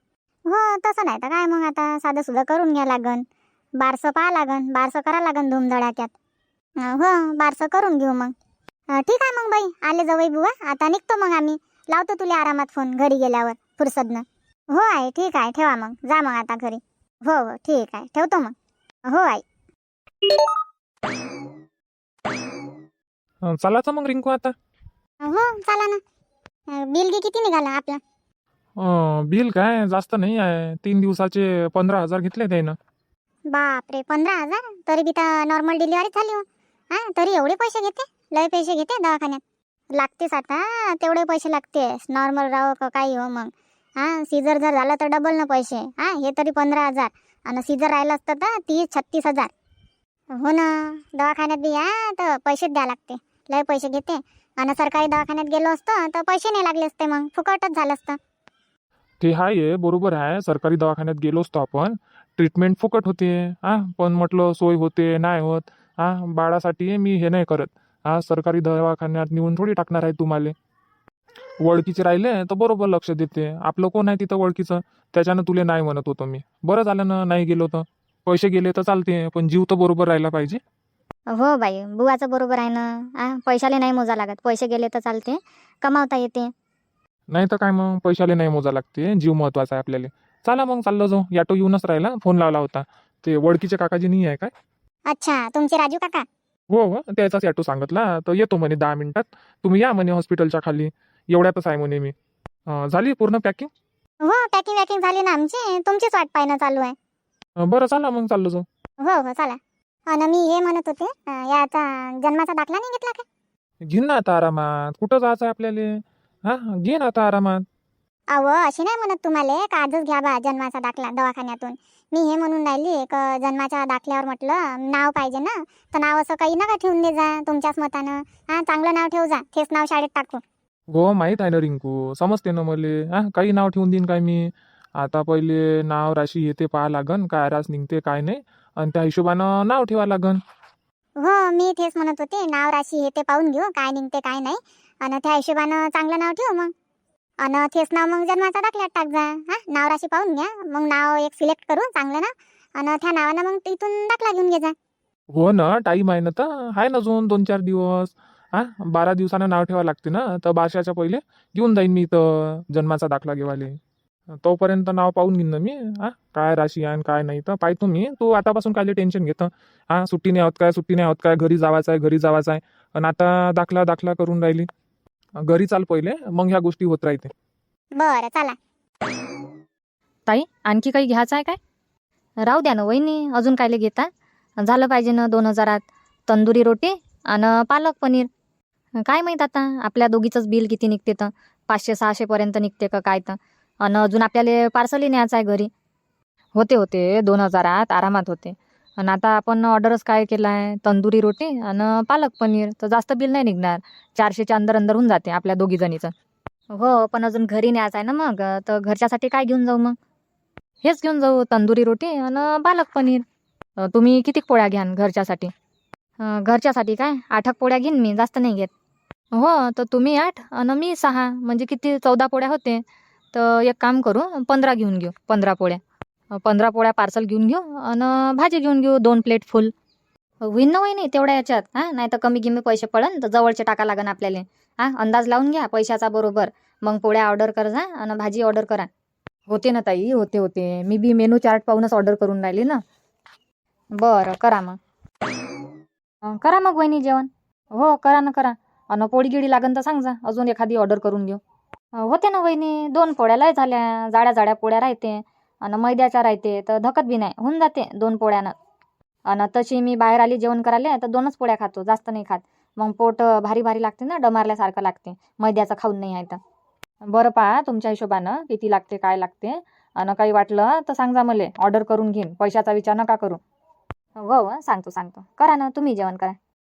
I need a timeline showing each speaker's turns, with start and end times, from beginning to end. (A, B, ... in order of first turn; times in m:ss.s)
0:00.5-0:03.2 A
0:03.8-0:06.2 A
0:06.8-0:08.3 A
0:08.9-0:18.5 A
0:19.1-0:19.4 A
0:23.4-0:24.5 B
0:25.2-0:26.0 A
0:26.7-0:28.0 A
0:28.8-0:32.8 B
0:33.5-0:39.4 A
0:40.0-0:49.5 A
0:50.4-0:58.2 A
0:59.2-1:10.5 B
1:11.6-1:20.6 B
1:21.3-1:26.5 C
1:27.3-1:34.5 B
1:35.1-1:36.2 A
1:36.7-1:42.1 B
1:42.7-1:43.7 B
1:44.2-1:46.9 A
1:47.6-1:48.6 B
1:49.0-1:53.2 A
1:53.9-1:55.9 B
1:56.5-1:57.6 B
1:58.3-2:10.4 A
2:10.9-2:20.4 B
2:21.2-2:26.7 A
2:27.4-2:34.7 A
2:35.3-2:43.8 B
2:44.4-2:54.7 B
2:55.4-2:57.3 B
2:58.0-2:58.6 A
3:00.3-3:01.6 C
3:02.5-3:04.1 C
3:04.6-3:08.3 C
3:09.0-3:15.7 C
3:16.6-3:26.1 C
3:26.7-3:30.0 C
3:30.8-3:33.2 C
3:33.8-3:35.5 C
3:36.2-3:38.7 C
3:39.4-3:42.8 C
3:43.3-3:45.8 C
3:46.3-3:49.7 C
3:50.4-3:58.9 C
3:59.5-4:02.8 C
4:04.0-4:04.8 C
4:06.2-4:11.4 C
4:12.0-4:18.5 C
4:19.3-4:26.4 C
4:27.1-4:33.4 C
4:34.2-4:36.4 C